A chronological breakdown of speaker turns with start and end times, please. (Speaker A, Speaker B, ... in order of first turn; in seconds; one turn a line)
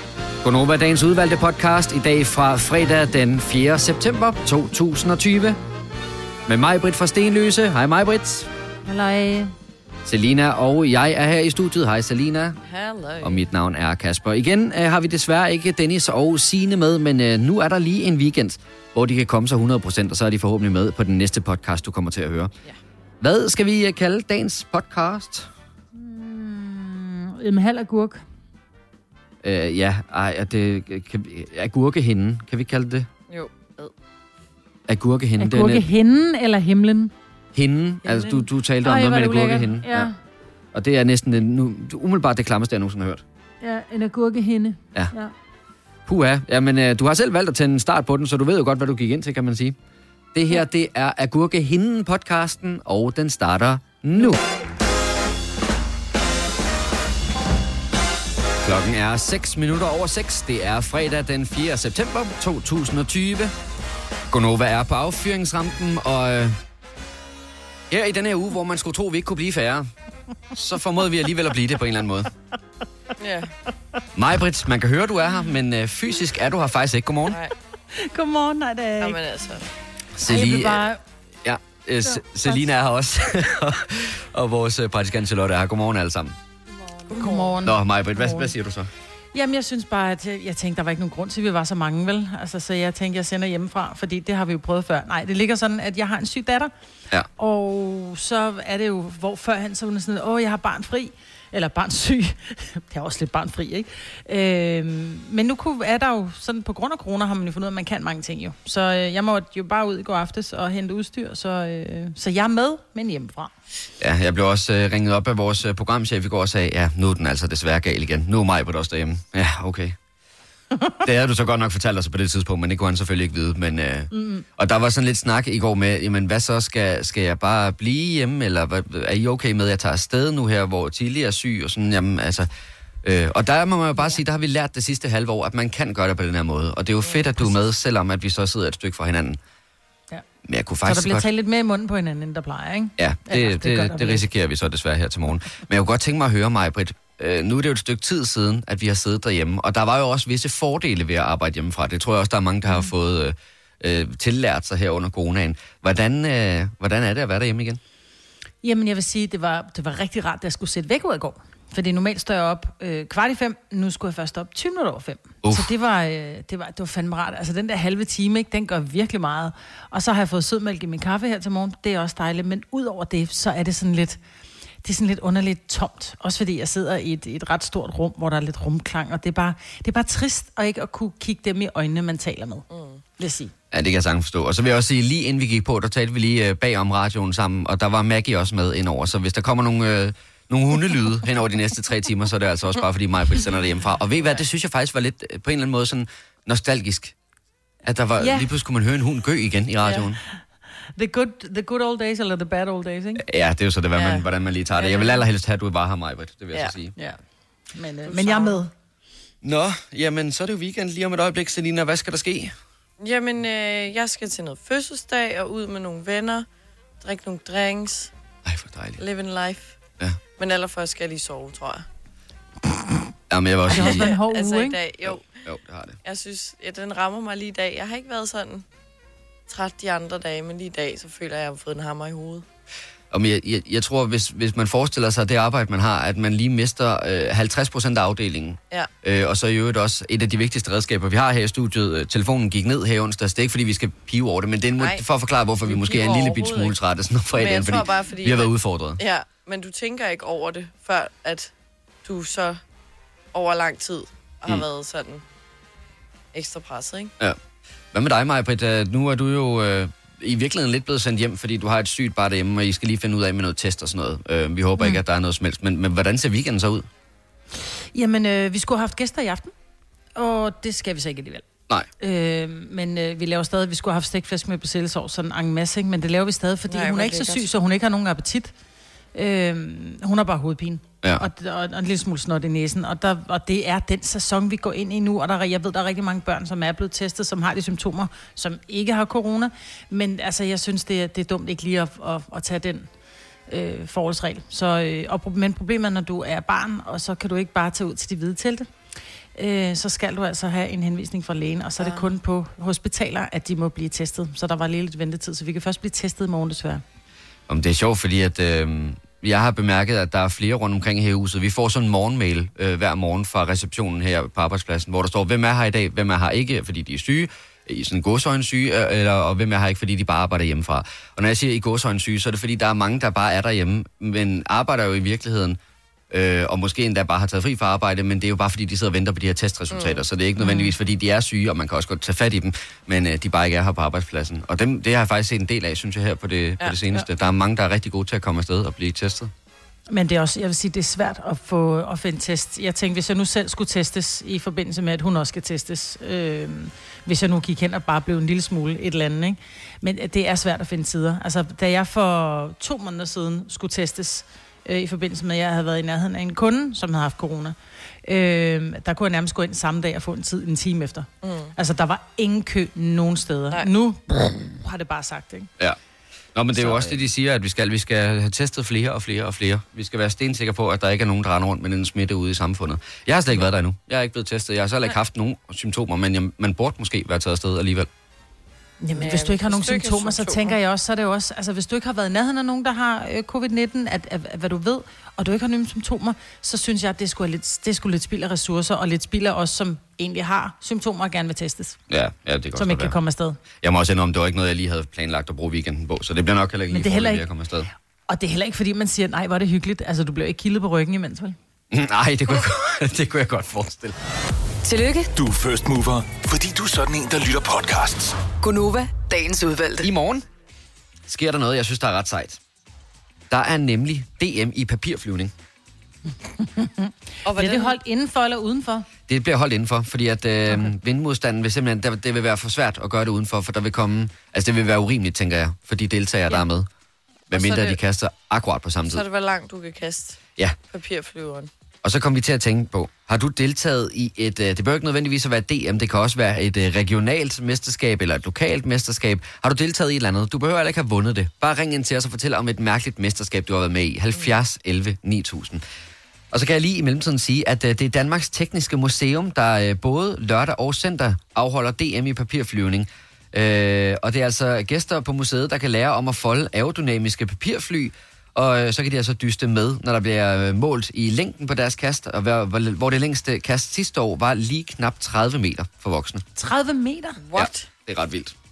Speaker A: 0.4-5.6
Speaker A: 6.5-8.5
Speaker B: 8.8-9.5
Speaker A: 10.1-12.6
Speaker C: 12.6-13.4
Speaker A: 13.2-22.5
Speaker A: 23.2-25.5
Speaker B: 25.9-28.2
Speaker A: 29.4-33.1
Speaker C: 33.3-33.9
Speaker A: 34.9-35.9
Speaker B: 35.4-37.1
Speaker A: 37.5-40.1
Speaker B: 38.0-40.1
Speaker A: 40.7-43.2
Speaker B: 43.6-45.3
Speaker A: 46.1-49.8
Speaker A: 50.3-54.4
Speaker A: 58.6-63.5
Speaker A: 64.3-66.6
Speaker A: 67.9-69.9
Speaker A: 70.5-72.3
Speaker C: 73.2-73.5
Speaker A: 74.2-77.4
Speaker B: 77.9-79.2
Speaker C: 79.0-79.7
Speaker A: 80.2-80.9
Speaker B: 80.2-81.0
Speaker A: 81.4-86.4
Speaker B: 82.0-82.7
Speaker C: 87.1-87.5
Speaker B: 87.1-88.5
Speaker A: 87.6-88.9
Speaker B: 89.3-96.7
Speaker B: 97.4-113.5
Speaker A: 114.0-120.0
Speaker A: 121.0-132.5
Speaker B: 124.1-124.5
Speaker A: 133.0-139.4
Speaker A: 140.4-141.3
Speaker B: 140.9-144.3
Speaker A: 143.0-157.8
Speaker B: 158.6-174.2
Speaker A: 165.4-165.7
Speaker B: 174.8-182.7
Speaker C: 182.7-183.0
Speaker B: 183.2-183.5
Speaker A: 183.7-197.1
Speaker A: 197.8-200.2
Speaker B: 198.2-198.5
Speaker B: 201.0-203.2
Speaker A: 203.2-206.9
Speaker C: 204.0-204.3
Speaker C: 204.8-205.2
Speaker B: 207.7-208.7
Speaker C: 208.1-208.6
Speaker A: 209.4-212.5
Speaker C: 213.0-216.5
Speaker C: 217.0-218.1
Speaker A: 218.4-219.0
Speaker C: 219.0-219.8
Speaker C: 220.4-221.9
Speaker A: 223.3-224.1
Speaker B: 223.7-224.8
Speaker C: 223.7-225.3
Speaker A: 225.1-226.0
Speaker C: 226.0-228.7
Speaker C: 229.5-232.4
Speaker A: 233.1-249.0
Speaker C: 244.8-245.1
Speaker C: 245.6-246.8
Speaker C: 247.4-251.5
Speaker C: 252.1-252.6
Speaker C: 253.3-255.2
Speaker C: 256.3-257.1
Speaker A: 257.9-266.9
Speaker B: 267.9-269.5
Speaker B: 270.1-271.5
Speaker B: 272.0-278.5
Speaker C: 276.7-277.5
Speaker B: 279.1-292.9
Speaker B: 293.5-298.7
Speaker B: 299.4-306.8
Speaker C: 301.8-302.1
Speaker A: 307.5-325.6
Speaker A: 326.1-339.3
Speaker C: 329.7-330.0
Speaker B: 330.4-330.7
Speaker B: 339.9-365.5
Speaker C: 361.2-361.5
Speaker A: 366.4-377.9
Speaker B: 378.8-391.8
Speaker C: 379.0-380.6
Speaker A: 391.9-393.0
Speaker B: 392.6-393.4
Speaker A: 393.6-397.7
Speaker B: 396.7-397.2
Speaker B: 398.1-401.4
Speaker A: 401.7-403.9
Speaker D: 404.6-405.1
Speaker E: 405.1-408.2
Speaker D: 408.4-409.9
Speaker A: 409.8-410.3
Speaker A: 411.1-412.4
Speaker A: 413.3-415.3
Speaker B: 416.2-418.9
Speaker C: 417.3-417.8
Speaker A: 419.1-426.7
Speaker A: 427.3-429.1
Speaker C: 427.3-427.8
Speaker C: 428.9-431.5
Speaker A: 431.8-445.6
Speaker A: 446.3-466.2
Speaker B: 466.4-467.2
Speaker C: 467.2-467.7
Speaker A: 467.4-468.3